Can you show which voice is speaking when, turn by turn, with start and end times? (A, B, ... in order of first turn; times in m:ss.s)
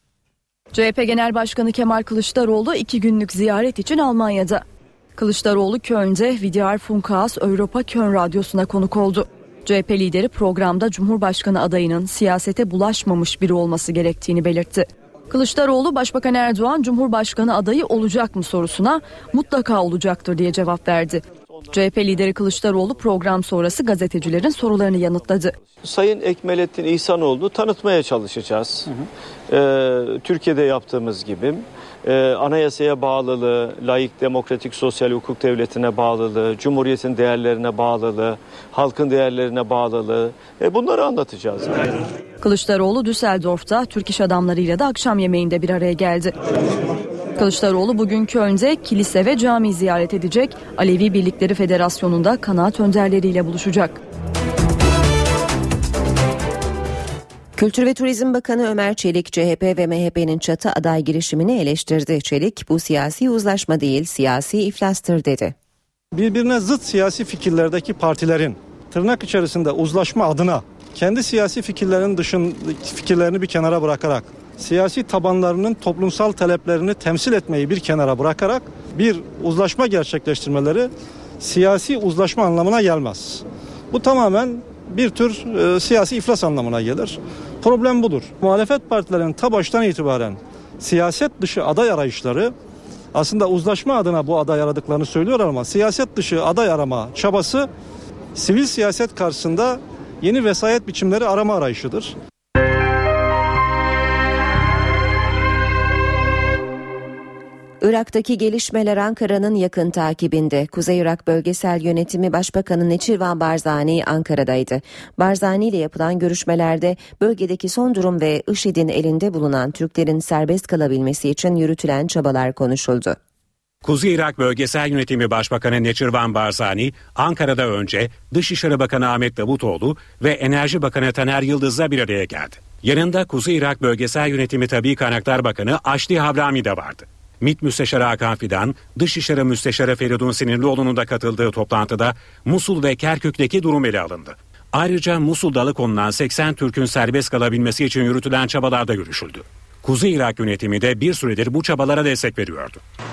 0:00.7-0:04.6 A
0:05.2-0:25.5 A
0:25.8-0:28.9 B
0:29.5-0:41.8 B
0:42.4-0:46.4 A
0:47.4-0:54.0 A
0:57.6-1:05.5 C
1:06.1-1:32.5 D
1:33.1-1:37.7 D
1:38.4-1:42.1 D
1:47.8-2:03.2 C
2:03.8-2:32.8 E